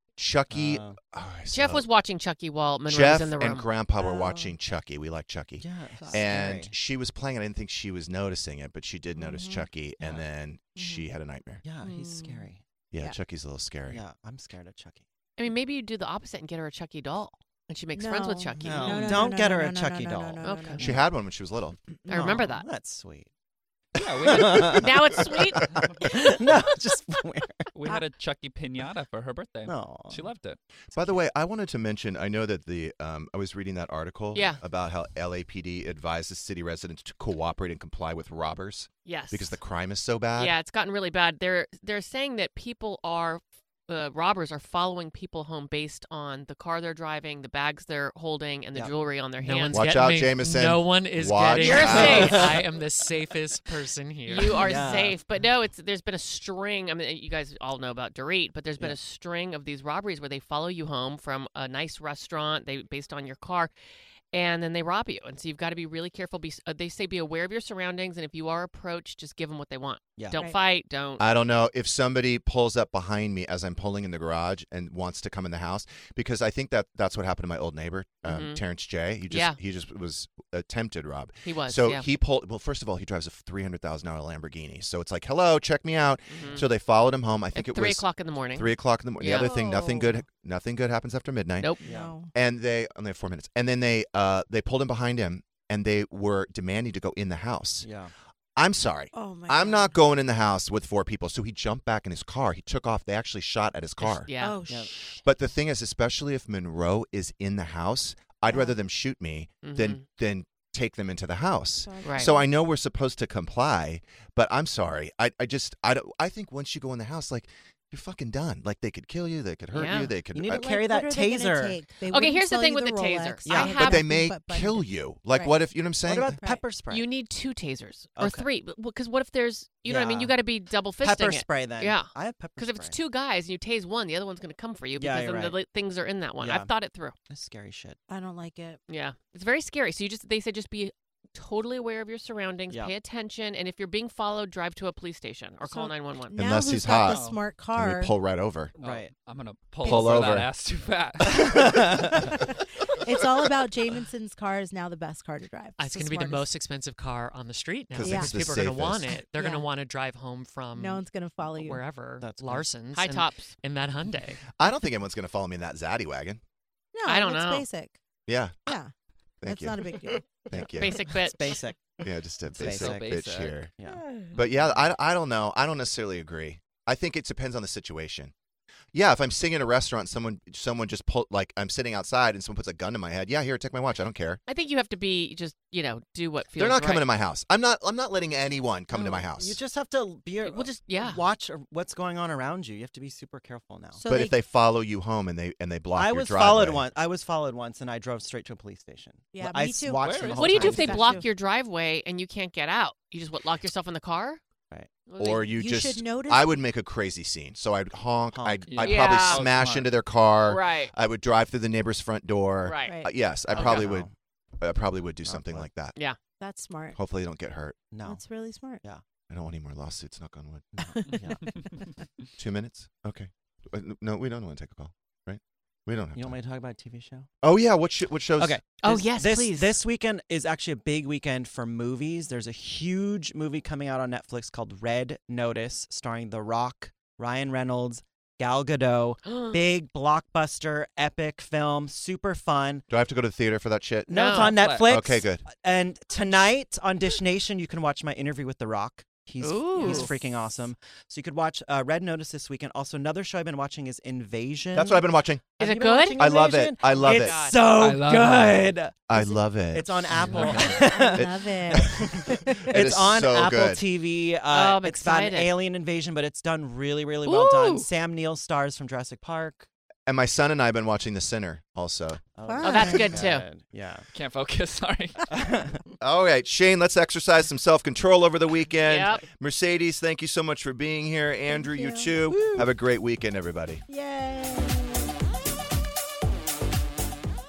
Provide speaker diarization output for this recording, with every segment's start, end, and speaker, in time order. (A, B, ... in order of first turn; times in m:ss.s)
0:00.2-0:01.9 A
0:00.5-0:00.9 B
0:01.5-0:03.7 C
0:02.9-0:11.6 A
0:04.0-0:04.5 D
0:05.6-0:06.7 B
0:06.0-0:06.3 D
0:09.2-0:09.7 D
0:10.8-0:11.1 D
0:11.6-0:12.6 B
0:11.8-0:12.5 D
0:12.9-0:14.0 A
0:13.9-0:15.0 B
0:15.4-0:19.3 C
0:18.0-0:20.9 D
0:18.5-0:20.9 B
0:20.4-0:21.0 C
0:20.8-0:21.8 A
0:22.1-0:22.7 C
0:22.1-0:23.3 B
0:24.0-0:24.9 E
0:24.0-0:27.7 B
0:24.7-0:25.8 C
0:27.7-0:30.6 E
0:29.6-0:30.3 B
0:30.9-0:40.5 A
0:34.3-0:34.6 C
0:39.0-0:39.5 C
0:40.4-0:49.8 C
0:48.7-0:49.8 B
0:49.5-0:54.6 F
0:49.7-0:52.4 A
0:51.6-0:52.6 C
0:51.8-0:52.6 B
0:54.2-1:03.7 C
0:54.5-0:55.2 B
1:04.3-1:11.2 C
1:10.2-1:10.4 B
1:11.2-1:31.7 A
1:18.2-1:18.6 C
1:19.3-1:19.6 C
1:21.4-1:22.0 C
1:26.3-1:26.6 C
1:27.5-1:29.5 C
1:29.3-1:30.2 D
1:31.8-1:32.1 B
1:31.8-1:32.3 D
1:32.3-1:37.9 A
1:37.8-1:38.1 B
1:38.6-1:44.3 A
1:39.1-1:39.9 D
1:44.0-1:44.6 C
1:44.4-1:44.9 D
1:44.7-1:44.9 B
1:45.2-2:00.7 A
1:48.5-1:48.7 D
1:49.6-1:50.0 C
1:51.8-1:52.5 D
1:52.0-1:52.3 C
1:59.7-2:00.1 C
2:00.3-2:01.8 B
2:00.5-2:05.5 D
2:02.1-2:04.0 C
2:03.4-2:03.9 B
2:03.8-2:06.4 A
2:06.0-2:07.0 B
2:06.9-2:17.1 C
2:08.2-2:08.5 B
2:09.8-2:10.3 B
2:11.0-2:13.0 B
2:15.0-2:15.6 B
2:16.4-2:16.7 B
2:17.3-2:18.0 B
2:18.1-2:18.8 D
2:18.9-2:26.4 C
2:25.7-2:28.1 D
2:26.3-2:27.2 A
2:27.0-2:27.4 E
2:27.7-2:28.7 A
2:28.8-2:29.1 B
2:28.8-2:31.7 E
2:29.8-2:30.3 D
2:29.8-2:30.5 A
2:31.3-2:32.3 B
2:32.4-2:36.5 D
2:35.8-2:41.0 F
2:37.9-2:39.1 A
2:38.0-2:38.4 D
2:39.3-2:39.6 D
2:40.8-2:41.8 D
2:41.5-2:44.4 F
2:42.2-2:42.7 B
2:42.9-2:43.5 C
2:44.6-2:46.4 A
2:46.9-2:48.0 D
2:47.0-2:47.6 C
2:48.3-2:48.5 A
2:49.4-2:49.9 A
2:49.4-2:50.3 D
2:50.5-2:51.1 A
2:50.6-2:52.0 B
2:50.7-2:51.6 C
2:52.0-2:53.7 A
2:52.6-2:53.6 E
2:52.6-2:54.0 B
2:53.9-2:54.3 D
2:54.3-2:58.3 A
2:58.9-3:04.4 A
3:04.5-3:07.1 C
3:06.6-3:09.6 A
3:08.9-3:14.0 B
3:10.4-3:11.2 C
3:14.0-3:14.4 D
3:14.1-3:16.8 A
3:15.9-3:21.2 B
3:19.3-3:21.2 D
3:20.0-3:20.8 E
3:20.3-3:24.4 C
3:25.1-3:25.5 C
3:25.2-3:34.1 A
3:25.6-3:26.6 D
3:28.3-3:29.1 B
3:28.7-3:29.9 E
3:28.8-3:29.4 C
3:30.4-3:30.9 C
3:32.6-3:33.0 C
3:32.9-3:33.1 D
3:33.5-3:34.1 B
3:33.5-3:33.8 C
3:34.6-3:36.0 A
3:35.2-3:35.7 B
3:36.4-3:37.0 D
3:36.9-3:37.8 A
3:37.9-3:38.2 B
3:38.0-3:38.8 D
3:39.3-3:40.8 A
3:40.7-3:41.5 B
3:40.8-3:41.7 D
3:42.4-3:46.4 A
3:46.1-3:47.3 B
3:47.4-3:48.6 A
3:48.4-4:02.8 B
3:48.8-3:49.8 C
3:59.2-3:59.6 C
4:02.9-4:05.4 A
4:04.1-4:29.7 B
4:04.1-4:04.5 C
4:04.4-4:05.0 E
4:09.4-4:10.3 C
4:14.7-4:15.4 A
4:15.6-4:16.2 C
4:16.1-4:17.4 A
4:16.8-4:17.5 F
4:17.7-4:18.7 E
4:19.1-4:23.8 A
4:20.1-4:20.8 E
4:20.5-4:22.5 D
4:24.5-4:25.6 C
4:27.2-4:27.9 E
4:30.1-4:32.2 A
4:32.3-4:34.1 B
4:32.4-4:33.2 D
4:32.6-4:33.4 C
4:34.1-4:35.4 E
4:35.3-4:35.8 B
4:36.0-4:43.8 A
4:38.8-4:39.2 C
4:41.5-4:42.6 D
4:43.9-4:45.1 D